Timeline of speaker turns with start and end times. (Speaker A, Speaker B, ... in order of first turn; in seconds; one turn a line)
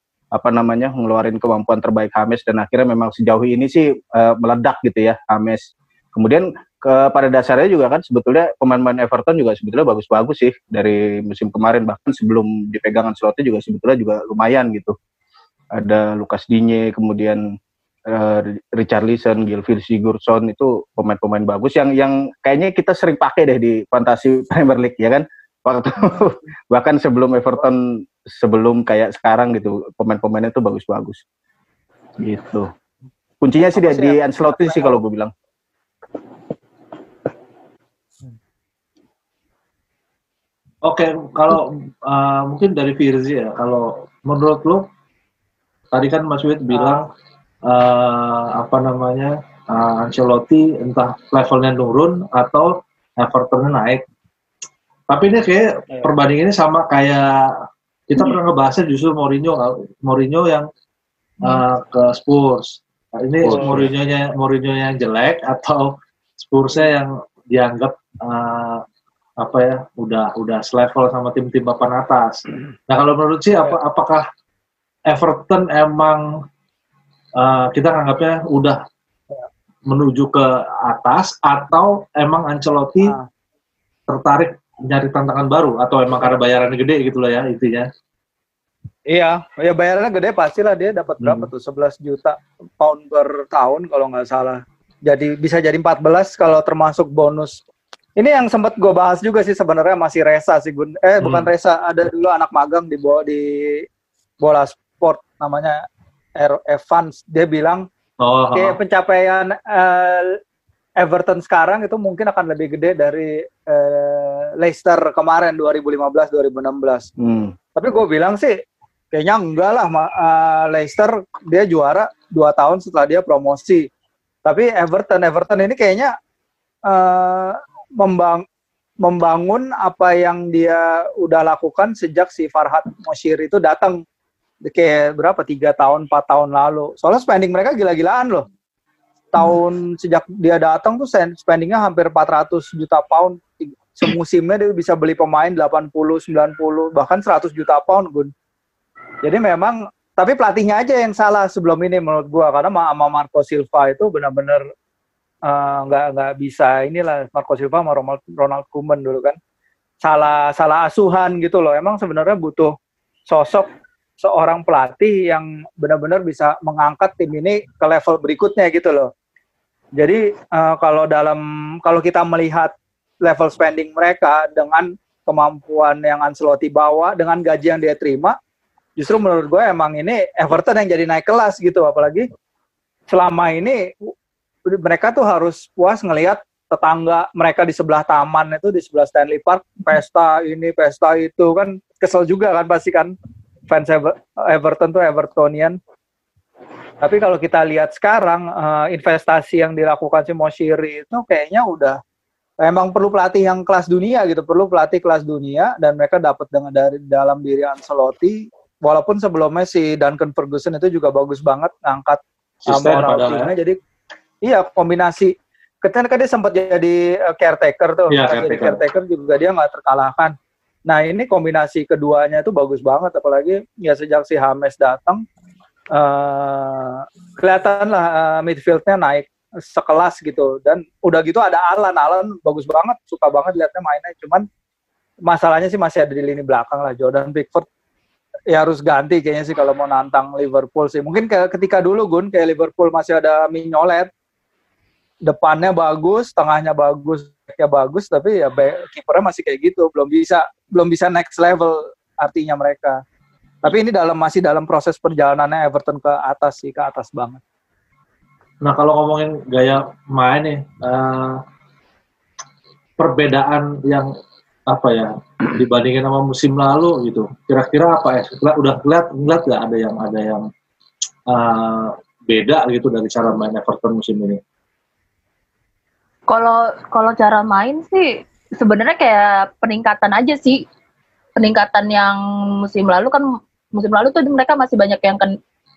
Speaker A: 0.3-14.9
Speaker A: 15.7-17.4
Speaker A: 18.1-31.2
Speaker A: 32.2-32.7
Speaker A: 33.4-35.3
Speaker B: 33.7-35.0
Speaker C: 40.8-44.9
Speaker C: 45.9-47.1
Speaker B: 46.7-47.0
Speaker C: 47.6-54.0
Speaker C: 55.1-57.5
Speaker C: 58.1-60.7
Speaker C: 61.4-68.8
Speaker A: 63.4-63.9
Speaker C: 69.4-74.2
Speaker C: 75.1-76.2
Speaker C: 77.4-78.8
Speaker C: 79.9-83.1
Speaker B: 83.0-83.3
Speaker C: 84.1-87.9
Speaker B: 89.1-97.6
Speaker C: 91.2-91.5
Speaker B: 98.2-103.8
Speaker C: 101.2-101.5
Speaker B: 104.4-105.8
Speaker B: 106.4-107.8
Speaker C: 108.2-108.8
Speaker B: 108.5-110.4
Speaker B: 111.0-117.1
Speaker A: 117.2-117.5
Speaker B: 117.7-118.6
Speaker B: 119.1-123.9
Speaker B: 124.4-126.1
Speaker B: 126.8-128.4
Speaker B: 129.0-134.0
Speaker B: 134.7-138.4
Speaker B: 139.3-148.3
Speaker B: 149.2-154.6
Speaker B: 155.4-159.4
Speaker B: 160.0-162.7
Speaker B: 163.3-163.7
Speaker B: 164.2-169.1
Speaker B: 170.0-178.4
Speaker B: 179.0-182.3
Speaker B: 183.1-184.1
Speaker B: 184.7-193.1
Speaker B: 193.7-195.8
Speaker B: 197.0-202.0
Speaker B: 202.6-213.8
Speaker C: 212.6-213.5
Speaker B: 214.4-225.2
Speaker C: 218.1-218.8
Speaker B: 225.9-234.4
Speaker B: 235.2-237.7
Speaker B: 238.5-244.1
Speaker B: 245.2-253.0
Speaker B: 253.6-257.4
Speaker C: 258.6-261.4
Speaker C: 263.0-264.1
Speaker C: 264.7-270.4
Speaker C: 271.3-274.4
Speaker D: 276.3-280.6
Speaker D: 281.4-285.3